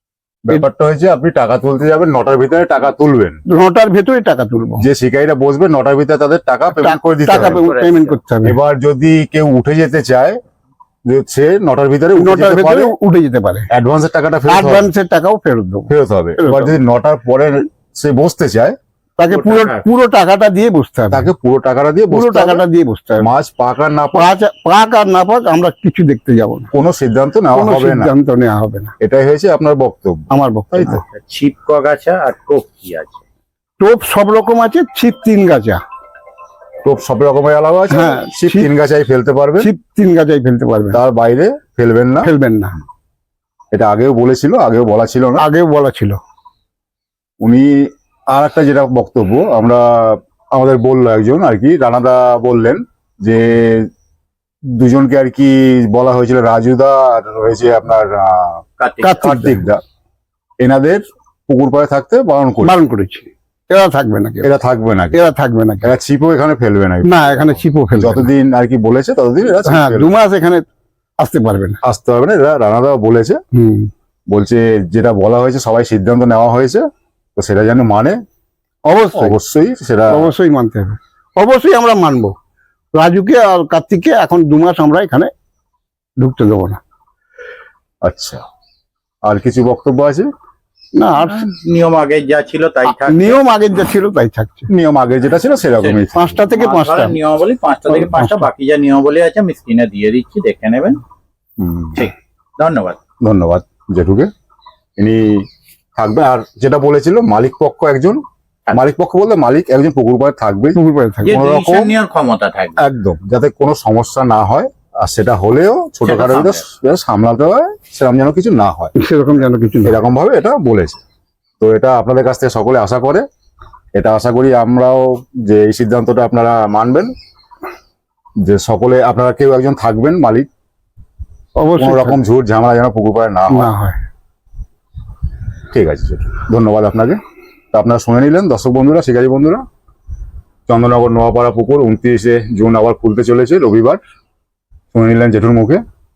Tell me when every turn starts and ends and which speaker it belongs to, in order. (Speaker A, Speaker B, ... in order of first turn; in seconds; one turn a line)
Speaker A: 0.5-3.4
Speaker B: 3.5-4.8
Speaker A: 4.8-7.6
Speaker B: 6.8-8.6
Speaker C: 7.4-8.2
Speaker A: 8.4-10.4
Speaker A: 11.1-12.9
Speaker B: 12.2-13.7
Speaker A: 13.7-14.9
Speaker B: 14.5-16.7
Speaker A: 15.9-18.7
Speaker B: 19.2-21.3
Speaker C: 19.3-19.8
Speaker A: 21.1-22.6
Speaker B: 22.1-23.3
Speaker A: 23.2-24.3
Speaker B: 24.1-26.7
Speaker A: 26.7-28.1
Speaker B: 27.5-28.9
Speaker A: 29.0-31.0
Speaker B: 30.3-31.0
Speaker C: 31.1-33.2
Speaker B: 33.8-35.8
Speaker A: 36.8-39.7
Speaker B: 37.9-38.7
Speaker B: 39.6-41.0
Speaker A: 40.9-42.3
Speaker B: 42.2-42.8
Speaker A: 43.7-45.5
Speaker B: 45.4-46.2
Speaker A: 47.4-53.9
Speaker A: 54.7-59.8
Speaker C: 58.8-59.2
Speaker B: 59.0-59.6
Speaker A: 60.6-62.8
Speaker B: 62.6-64.5
Speaker A: 64.4-65.2
Speaker B: 65.1-65.9
Speaker A: 65.8-70.1
Speaker B: 67.0-68.3
Speaker B: 69.6-70.6
Speaker B: 71.2-71.8
Speaker A: 71.8-73.4
Speaker B: 73.5-73.9
Speaker A: 74.3-76.8
Speaker A: 77.3-78.2
Speaker B: 78.8-79.4
Speaker A: 79.1-80.3
Speaker B: 80.1-82.3
Speaker B: 83.0-85.3
Speaker B: 86.2-86.8
Speaker A: 88.0-88.4
Speaker A: 89.2-90.3
Speaker B: 91.0-91.4
Speaker C: 91.2-93.4
Speaker B: 92.9-94.7
Speaker A: 94.7-96.2
Speaker C: 95.8-101.0
Speaker B: 96.1-97.2
Speaker B: 97.9-98.5
Speaker A: 101.6-102.0
Speaker C: 102.0-103.0
Speaker A: 103.2-104.3
Speaker A: 105.0-105.5
Speaker A: 106.0-108.2
Speaker A: 108.7-112.0
Speaker B: 110.7-111.4
Speaker C: 111.2-112.8
Speaker A: 112.8-118.9
Speaker C: 116.0-116.6
Speaker B: 119.0-120.0
Speaker A: 119.8-121.0
Speaker A: 121.6-123.2
Speaker A: 123.9-127.1
Speaker A: 128.4-130.5
Speaker B: 131.6-132.2
Speaker A: 131.8-133.7
Speaker B: 133.5-134.0
Speaker A: 135.7-137.2
Speaker A: 137.7-139.6
Speaker A: 140.7-144.0
Speaker A: 144.9-145.8